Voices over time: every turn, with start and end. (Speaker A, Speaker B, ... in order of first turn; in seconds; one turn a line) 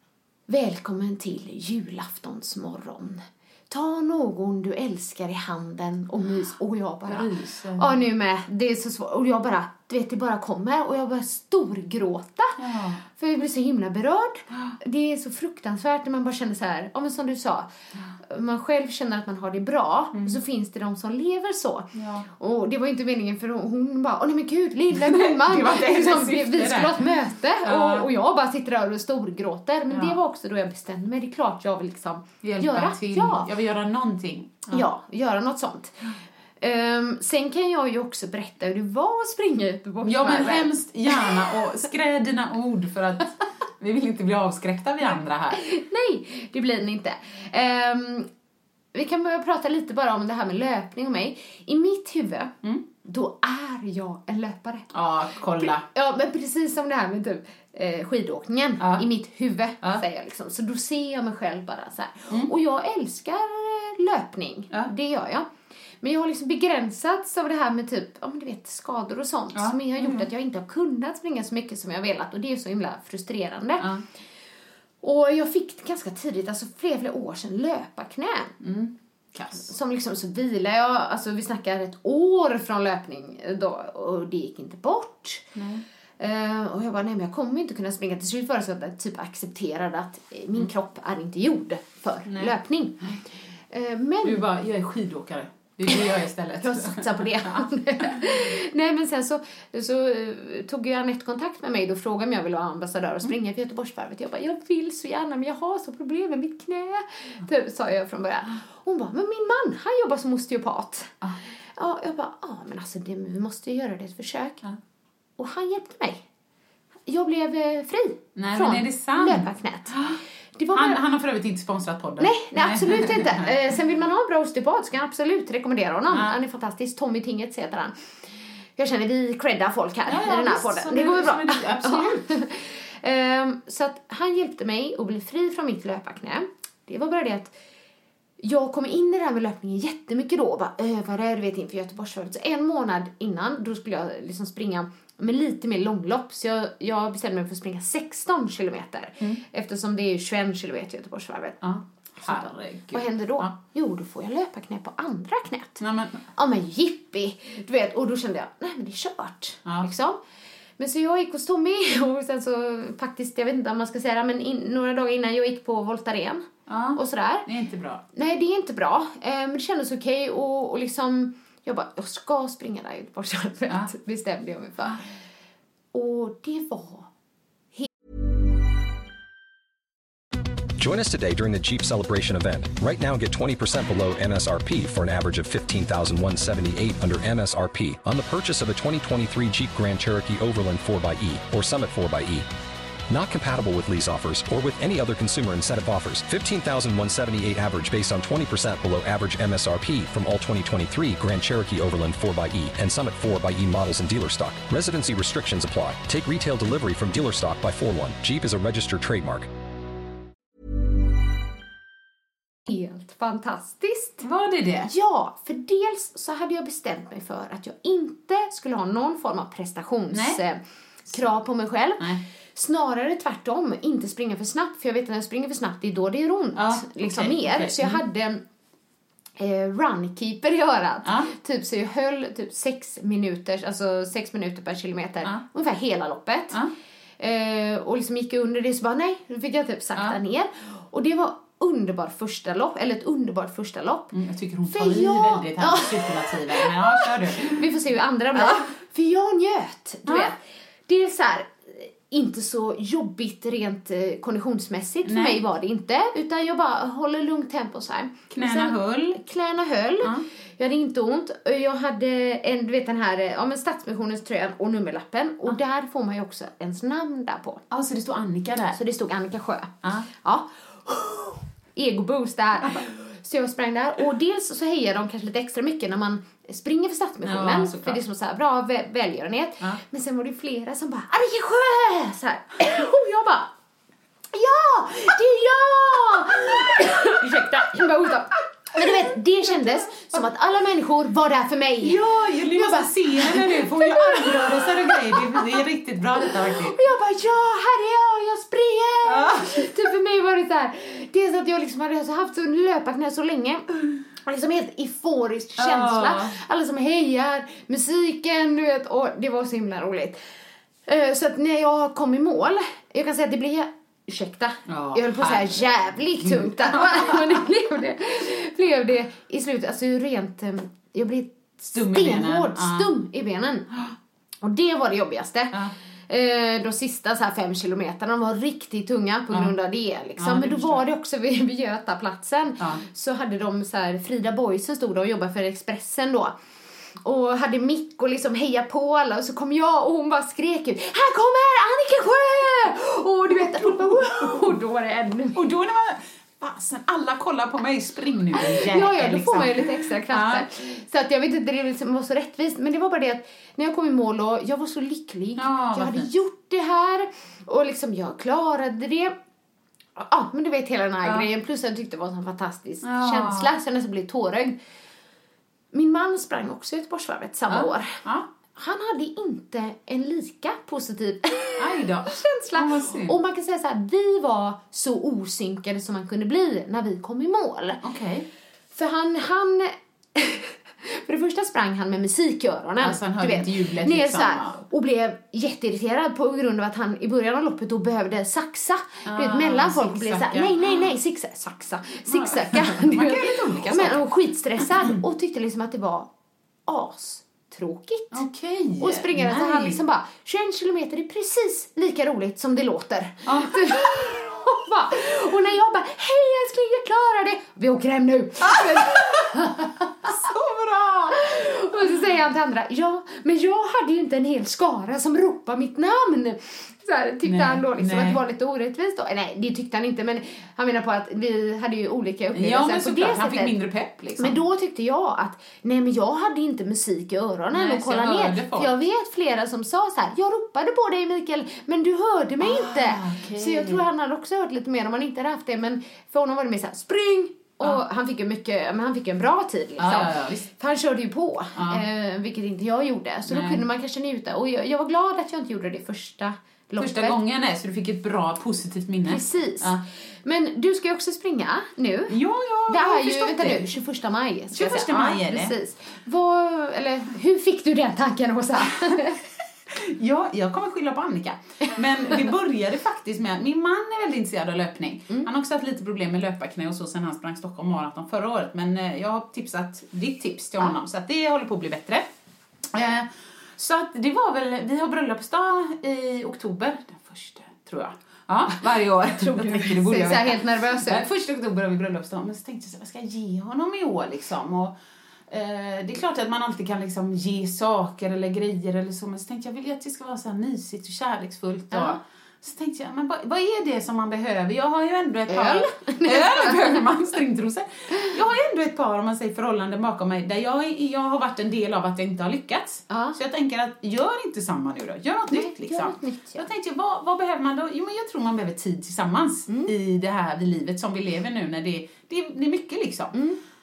Speaker A: 0.5-33.5
Speaker B: 7.1-7.9
Speaker B: 12.6-13.0
Speaker B: 21.9-22.3
Speaker B: 24.9-27.0
Speaker B: 27.6-28.1
Speaker B: 29.9-30.2
Speaker B: 32.4-34.9
Speaker A: 34.7-41.4
Speaker B: 40.0-45.6
Speaker A: 45.5-48.3
Speaker A: 48.9-54.9
Speaker B: 54.9-55.9
Speaker A: 55.6-65.5
Speaker B: 58.8-59.0
Speaker A: 66.0-73.9
Speaker B: 69.5-70.3
Speaker A: 75.0-78.5
Speaker B: 78.6-79.7
Speaker A: 79.6-85.5
Speaker B: 85.5-85.8
Speaker A: 86.2-93.1
Speaker B: 92.3-93.2
Speaker A: 93.7-94.5
Speaker B: 94.2-98.2
Speaker A: 96.6-111.2
Speaker A: 111.8-114.6
Speaker A: 115.4-116.2
Speaker A: 117.1-121.0
Speaker B: 118.4-120.2
Speaker B: 120.7-123.5
Speaker A: 122.2-128.2
Speaker B: 126.1-126.3
Speaker A: 128.8-137.5
Speaker B: 130.1-132.2
Speaker A: 138.4-151.6
Speaker B: 151.6-153.5
Speaker A: 152.2-155.8
Speaker B: 155.8-156.2
Speaker A: 156.3-160.2
Speaker A: 160.8-167.5
Speaker B: 166.7-168.0
Speaker A: 168.1-175.1
Speaker A: 175.9-177.1
Speaker C: 180.8-192.5
Speaker C: 193.1-209.5
Speaker A: 212.7-214.3
Speaker B: 214.2-214.9
Speaker A: 214.9-228.4
Speaker B: 220.1-220.4
Speaker B: 226.6-228.0
Speaker A: 229.4-236.6
Speaker B: 231.1-231.3
Speaker A: 237.2-244.1
Speaker B: 244.1-247.7
Speaker A: 244.7-267.6
Speaker B: 248.3-248.7
Speaker B: 250.1-250.3
Speaker B: 255.1-255.4
Speaker B: 258.3-259.2
Speaker B: 267.7-268.8
Speaker A: 268.7-283.5
Speaker B: 277.2-278.0
Speaker A: 284.3-295.6
Speaker B: 291.8-296.8
Speaker A: 296.3-310.2
Speaker B: 299.1-299.9
Speaker B: 305.6-306.4
Speaker A: 310.9-323.8
Speaker B: 314.7-315.6
Speaker B: 316.2-317.4
Speaker B: 321.7-322.9
Speaker A: 324.4-336.4
Speaker B: 330.2-330.8
Speaker A: 337.0-345.4
Speaker B: 343.5-344.5
Speaker B: 345.4-350.5
Speaker A: 348.4-359.1
Speaker B: 355.4-356.1
Speaker A: 360.0-364.6
Speaker B: 362.8-363.5
Speaker A: 365.7-368.0
Speaker B: 367.5-368.3
Speaker A: 368.5-377.8
Speaker B: 371.6-373.2
Speaker B: 377.8-378.3
Speaker A: 378.7-396.1
Speaker B: 382.8-384.6
Speaker B: 389.1-390.9
Speaker B: 392.1-394.1
Speaker B: 394.6-394.9
Speaker A: 396.7-398.3
Speaker B: 398.1-399.8
Speaker A: 398.8-410.1
Speaker B: 403.2-403.9
Speaker B: 408.4-409.5
Speaker B: 410.0-411.4
Speaker A: 411.1-423.5
Speaker B: 417.2-418.2
Speaker B: 422.3-424.4
Speaker A: 424.2-447.2
Speaker B: 427.5-428.7
Speaker B: 432.4-433.8
Speaker B: 439.8-440.5
Speaker B: 441.6-441.8
Speaker B: 443.3-443.6
Speaker B: 446.8-449.8
Speaker A: 449.1-459.2
Speaker B: 452.1-453.7
Speaker B: 454.5-455.6
Speaker B: 459.7-472.1
Speaker B: 472.7-484.8
Speaker A: 479.3-481.0
Speaker B: 485.3-513.2
Speaker A: 491.7-492.0
Speaker A: 495.3-496.8
Speaker A: 502.9-503.2
Speaker A: 505.3-506.5
Speaker A: 509.5-509.7
Speaker A: 513.1-513.4